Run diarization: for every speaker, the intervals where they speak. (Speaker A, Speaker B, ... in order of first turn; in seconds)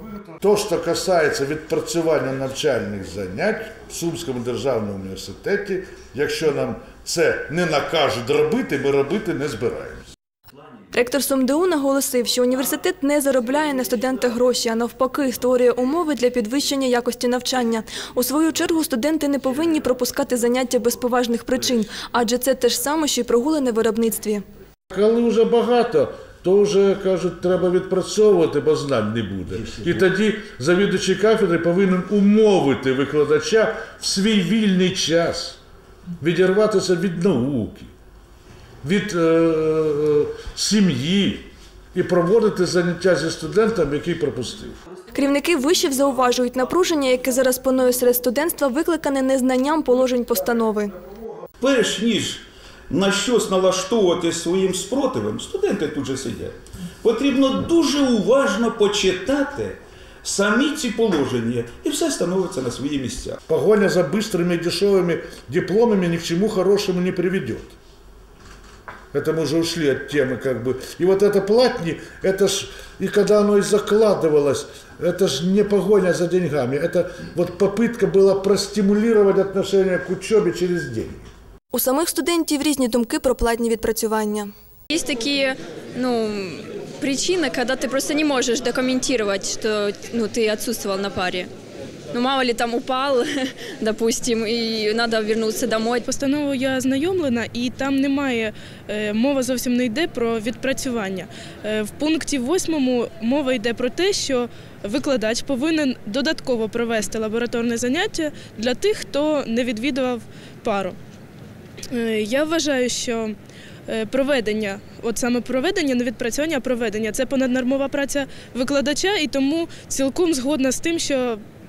Speaker A: 0.1-10.0, 24.9-35.6, 36.2-37.9, 38.8-44.8, 63.5-67.8, 69.1-81.2
Speaker B: 10.9-24.4, 45.1-51.0, 81.7-84.5
Speaker C: 51.6-63.4
Speaker D: 84.9-91.5, 92.1-96.1
Speaker E: 96.1-111.0, 111.9-113.4, 113.9-121.4